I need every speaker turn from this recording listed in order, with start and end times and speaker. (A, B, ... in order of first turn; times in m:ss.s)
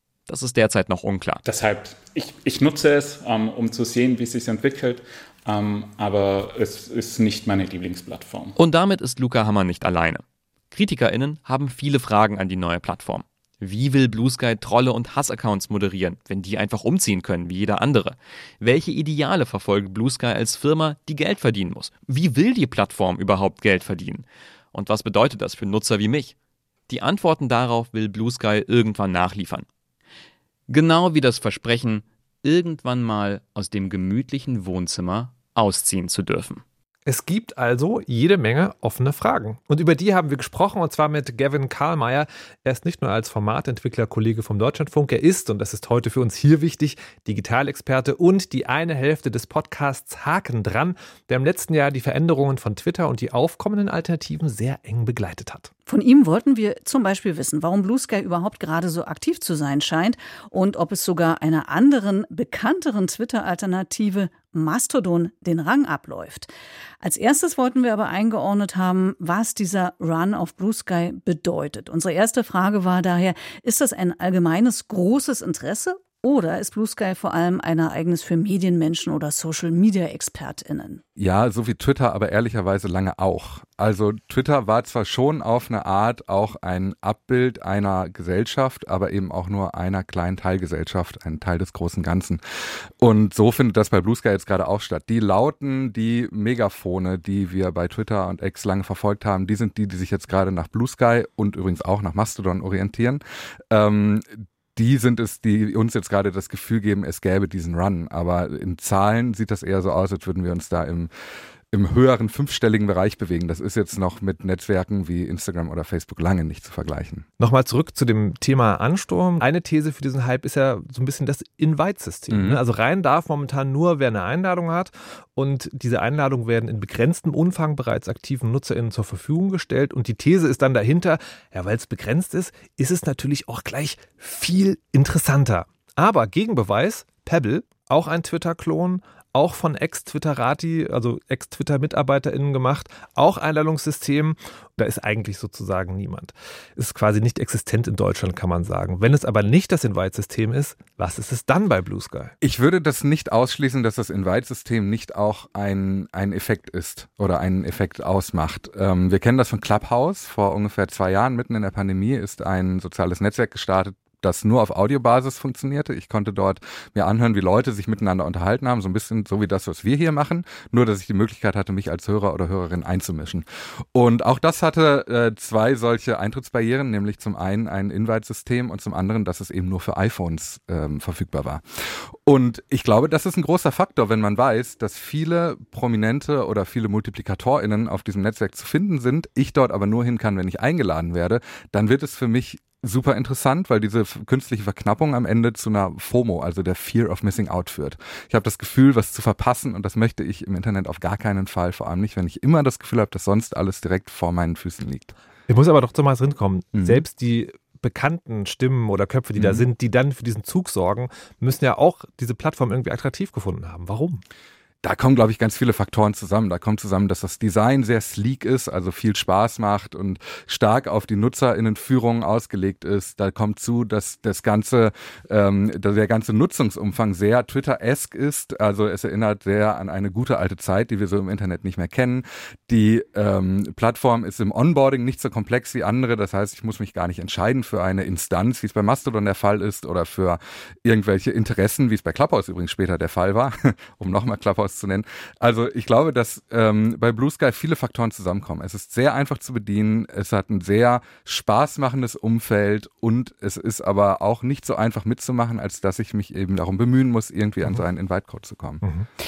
0:00.2-0:01.4 A
0:01.4-0:08.5 B
0:08.6-0:26.3 A
0:26.9-0:29.6 A
0:30.7-0:36.6 A
0:37.1-0:55.7 C
0:55.9-1:06.5 D
1:07.0-1:21.0 D
1:21.2-1:32.4 E
1:33.0-1:51.1 E
1:51.7-1:57.2 E
1:57.4-2:32.3 C
2:02.3-2:02.6 E
2:32.4-3:01.6 E
3:02.2-3:25.1 E
3:25.5-3:34.2 C
3:26.8-3:27.0 E
3:29.4-3:29.6 E
3:34.8-4:18.8 E